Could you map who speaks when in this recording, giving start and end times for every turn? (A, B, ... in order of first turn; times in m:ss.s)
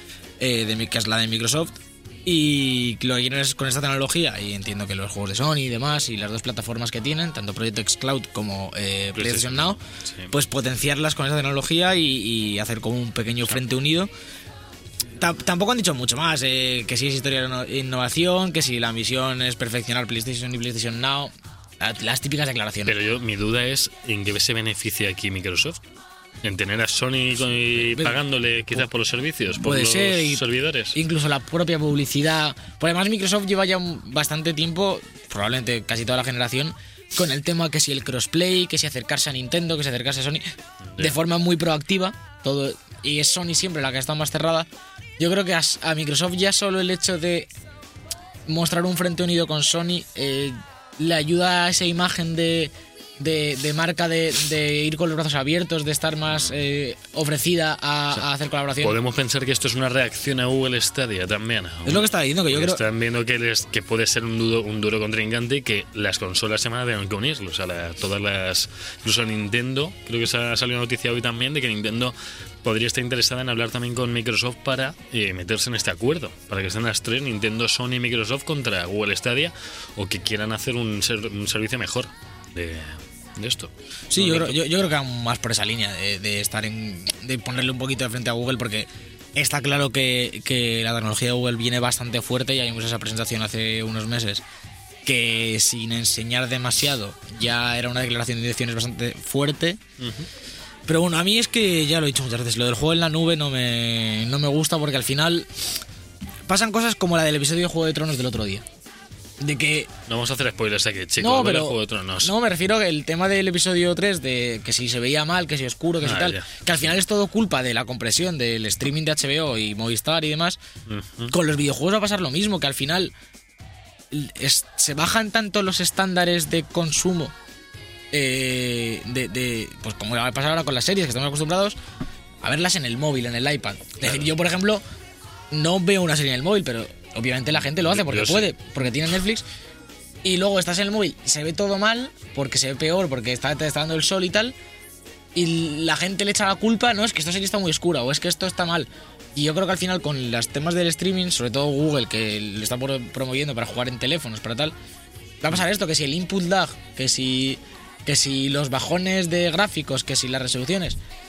0:00.4-0:09.8 A
0:09.2-0:10.3 B
0:10.3-0:14.1 A
0:15.2-0:22.9 A
0:22.9-0:25.8 B
0:26.4-0:31.0 B
0:27.9-0:28.2 A
0:29.6-0:30.4 A
0:30.9-0:40.5 A
0:41.0-0:44.7 A
0:45.2-0:47.5 A
0:48.5-0:59.0 A
0:58.8-1:24.6 B
1:01.9-1:02.8 A
1:24.1-1:34.4 A
1:35.0-1:39.8 A
1:40.0-1:40.3 B
1:40.9-1:45.5 A
1:46.5-1:48.6 A
1:49.4-1:49.9 A
1:50.1-1:52.3 B
1:51.2-2:00.6 A
1:56.0-1:56.5 B
2:00.9-2:01.3 B
2:01.3-2:03.1 A
2:04.1-2:07.3 A
2:08.1-2:11.8 A
2:12.4-2:14.8 A
2:15.5-2:19.4 A
2:17.8-2:18.5 B
2:20.2-2:24.6 A
2:25.4-2:34.7 A
2:35.4-2:41.0 A